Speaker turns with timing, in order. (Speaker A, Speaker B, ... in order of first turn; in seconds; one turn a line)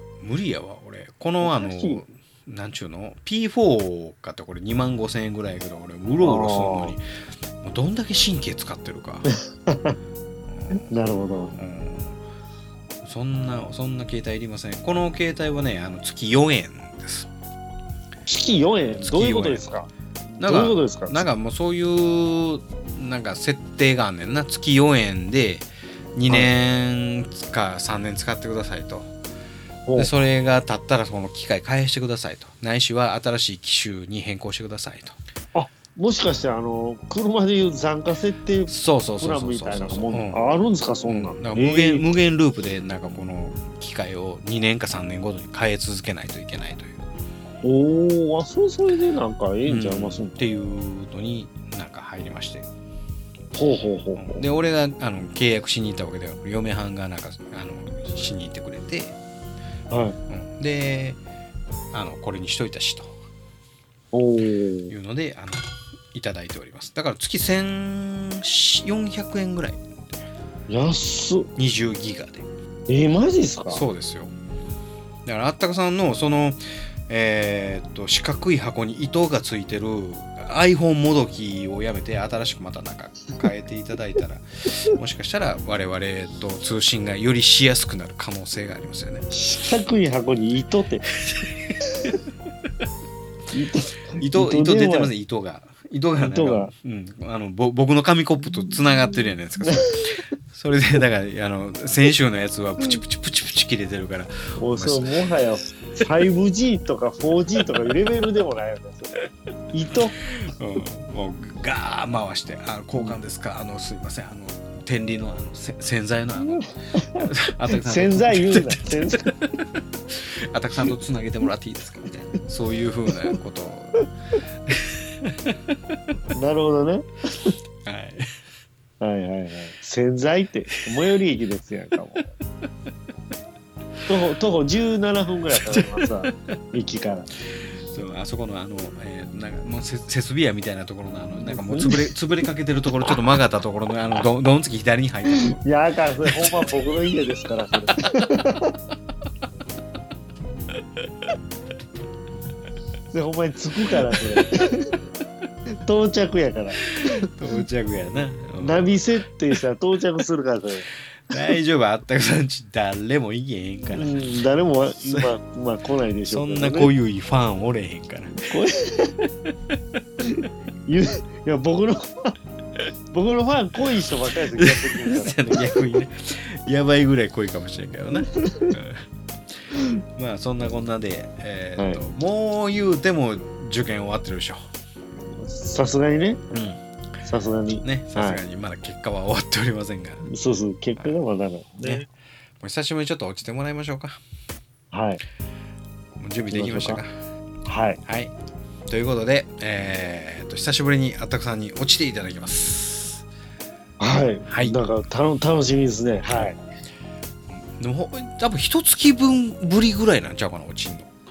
Speaker A: 0.2-7.0
Speaker B: 1.4-2.0
Speaker B: 6.2-7.0
Speaker A: 7.6-9.3
Speaker B: 9.7-9.9
Speaker A: 10.5-10.9
Speaker B: 10.8-11.5
Speaker A: 11.5-12.2
Speaker A: 13.0-17.3
Speaker B: 18.3-21.3
Speaker A: 19.0-19.8
Speaker A: 20.4-29.1
Speaker B: 29.9-30.1
Speaker A: 29.9-35.1
Speaker B: 35.5-42.0
Speaker A: 38.7-40.4
Speaker A: 41.1-47.0
Speaker B: 47.6-50.3
Speaker A: 49.6-52.7
Speaker B: 53.5-54.4
Speaker A: 54.2-59.1
Speaker B: 59.9-60.2
Speaker A: 60.3-61.2
Speaker A: 61.9-63.1
Speaker B: 64.1-64.9
Speaker A: 64.9-69.8
Speaker B: 70.7-71.5
Speaker A: 71.6-72.5
Speaker B: 72.9-73.8
Speaker A: 73.7-74.3
Speaker A: 75.2-89.2
Speaker B: 89.3-91.0
Speaker A: 91.2-92.1
Speaker B: 93.5-95.1
Speaker A: 94.2-105.1
Speaker B: 96.2-96.7
Speaker B: 104.6-109.1
Speaker B: 109.7-110.2
Speaker A: 110.2-116.7
Speaker B: 116.4-119.3
Speaker A: 117.2-124.1
Speaker A: 124.7-125.7
Speaker B: 126.3-127.5
Speaker A: 127.8-128.3
Speaker B: 129.0-132.3
Speaker B: 134.1-137.3
Speaker A: 135.5-136.3
Speaker A: 137.7-145.6
Speaker B: 141.4-142.1
Speaker B: 145.4-148.7
Speaker A: 146.2-146.6
Speaker B: 153.1-154.9
Speaker B: 155.7-157.3
Speaker A: 156.9-158.9
Speaker B: 158.6-160.8
Speaker A: 161.3-164.2
Speaker B: 163.9-166.9
Speaker A: 165.0-165.3
Speaker A: 166.3-168.4
Speaker B: 168.5-169.1
Speaker B: 170.9-172.3
Speaker B: 173.1-175.8
Speaker A: 174.6-179.0
Speaker B: 178.2-178.7
Speaker A: 179.7-184.6
Speaker B: 185.3-186.4
Speaker A: 186.5-186.8
Speaker B: 187.2-188.4
Speaker A: 187.8-190.3
Speaker B: 190.2-192.0
Speaker A: 191.8-192.1
Speaker A: 192.6-194.2
Speaker B: 194.9-195.2
Speaker A: 196.2-197.1
Speaker B: 196.5-197.0
Speaker B: 197.7-198.0
Speaker A: 198.1-198.3
Speaker A: 198.9-203.2
Speaker B: 204.0-206.6
Speaker A: 204.5-204.8
Speaker A: 207.8-211.1